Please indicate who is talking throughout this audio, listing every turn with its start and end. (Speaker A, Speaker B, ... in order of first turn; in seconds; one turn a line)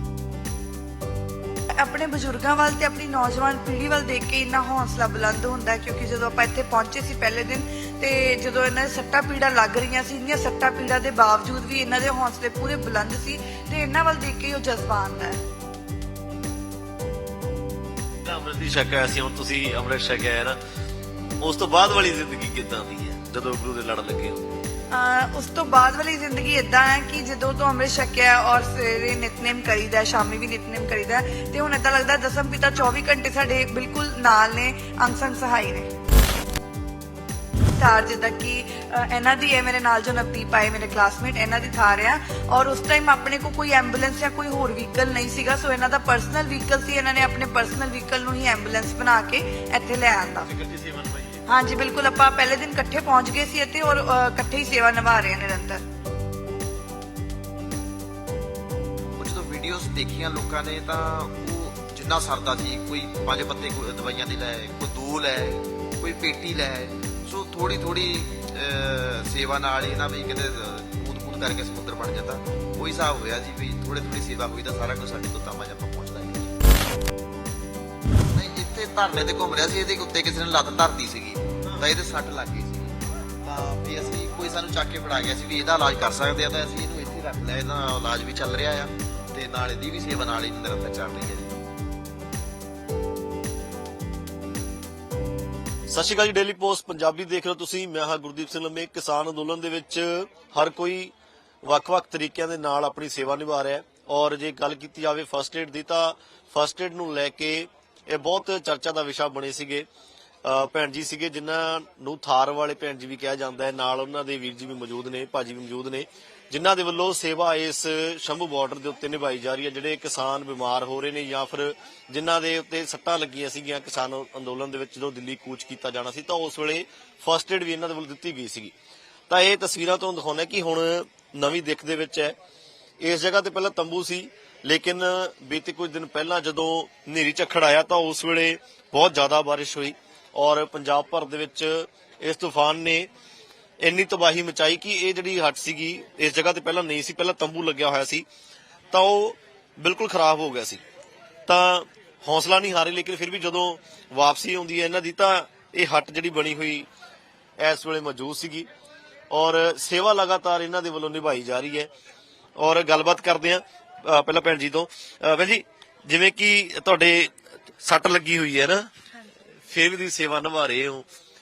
Speaker A: 1.8-15.4
Speaker B: 18.2-20.6
Speaker B: 21.4-24.4
Speaker A: 24.9-35.9
Speaker A: 37.7-50.5
Speaker B: 50.4-51.4
Speaker A: 51.5-55.8
Speaker C: 59.2-76.5
Speaker C: 78.3-91.6
Speaker B: 81.6-81.9
Speaker B: 95.9-109.8
Speaker B: 110.4-128.7
Speaker B: 129.3-132.3
Speaker B: 133.0-143.1
Speaker B: 143.8-148.2
Speaker B: 148.9-150.8
Speaker B: 151.5-156.9
Speaker B: 157.6-158.7
Speaker B: 159.3-161.9
Speaker B: 162.6-168.9
Speaker B: 169.6-171.1